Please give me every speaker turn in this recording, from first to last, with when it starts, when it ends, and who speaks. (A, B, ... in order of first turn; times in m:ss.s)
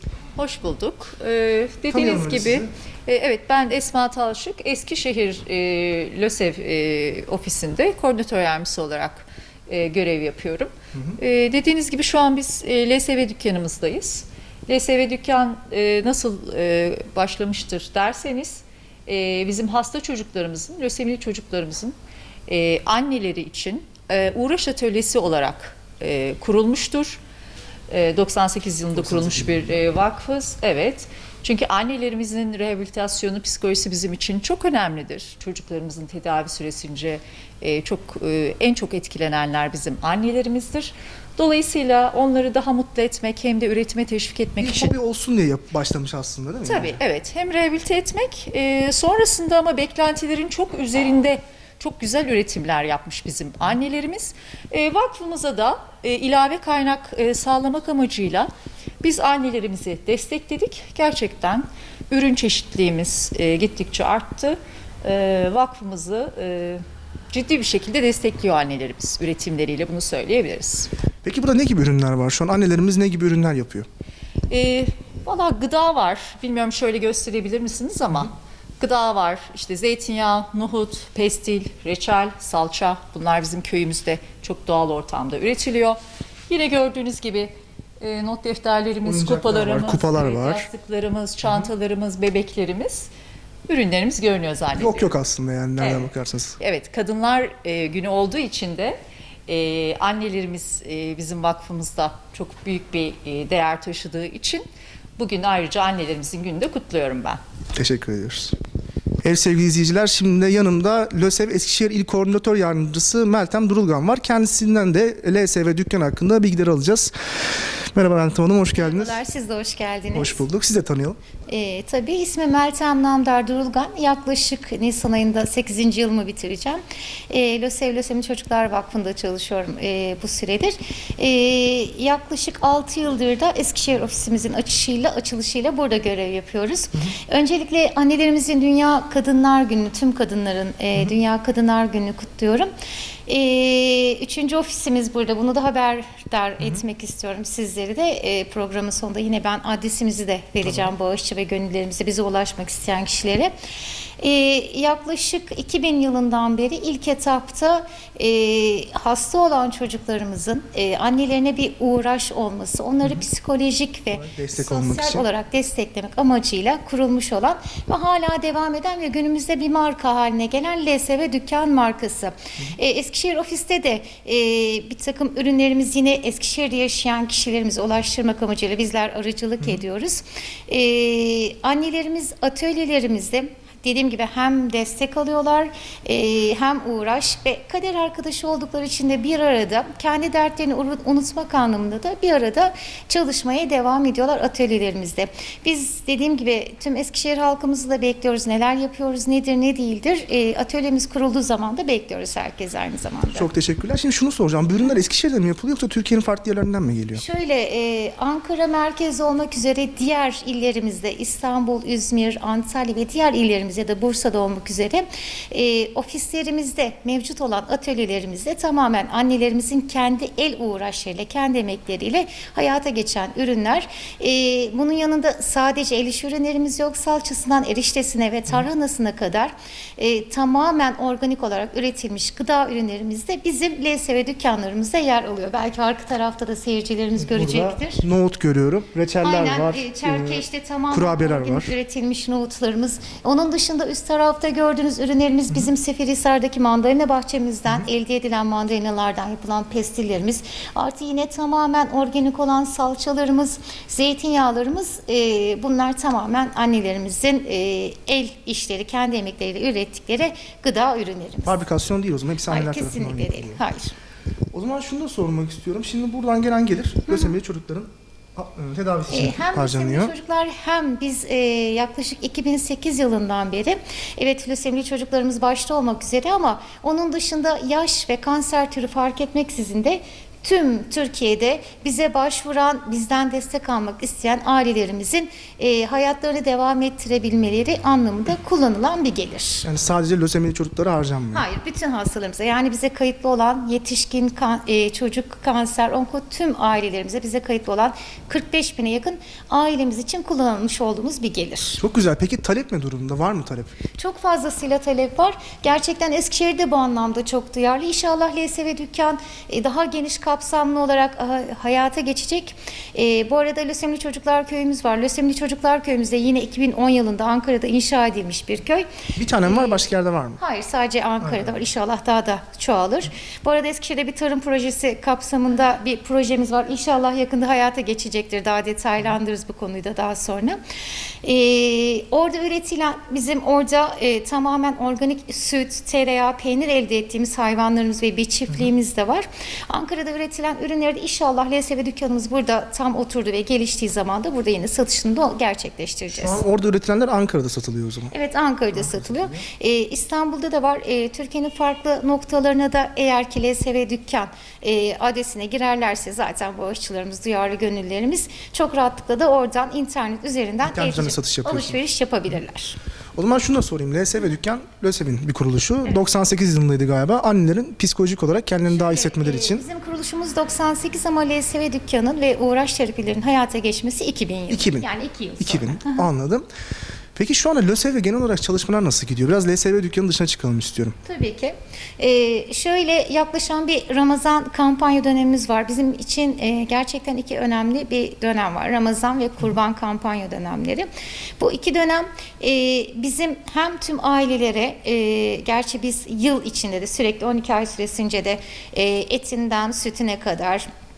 0:00.4-0:21.9 A
0:01.9-0:02.7 B
0:22.5-0:27.2 A
0:27.9-0:44.9 A
0:28.9-0:29.8 B
0:44.6-0:47.0 B
0:46.6-0:58.5 A
0:59.0-1:10.9 A
1:11.2-1:13.9 B
1:14.5-1:33.1 A
1:29.0-1:30.7 B
1:33.7-1:35.1 A
1:34.7-1:36.6 B
1:35.8-1:44.6 A
1:45.2-1:47.4 A
1:47.7-1:48.6 B
1:49.2-1:59.2 B
1:58.7-2:00.4 C
2:00.1-2:01.2 B
2:01.5-2:22.7 C
2:23.3-2:33.5 C
2:34.2-3:23.5 C
2:44.1-2:45.3 B
3:23.3-3:27.2 B
3:27.1-3:58.0 C
3:57.2-4:01.7 B
3:59.2-4:21.6 C
4:21.4-4:23.6 B
4:22.5-4:23.9 C
4:24.5-4:30.1 B
4:29.1-4:49.6 C
4:49.6-4:51.4 B
4:51.3-5:01.8 C
5:01.8-5:03.8 B
5:03.9-5:18.8 C
5:19.2-5:20.4 B
5:19.4-5:19.9 C
5:20.4-5:30.6 C
5:31.2-5:46.4 C
5:46.1-5:48.1 B
5:48.1-6:02.8 C
5:48.8-5:49.4 B
6:00.6-6:01.8 B
6:03.2-6:09.6 B
6:08.7-6:16.1 C
6:14.5-6:14.9 B
6:15.4-6:16.4 B
6:17.2-6:21.0 B
6:21.0-6:30.9 C
6:31.4-6:40.6 C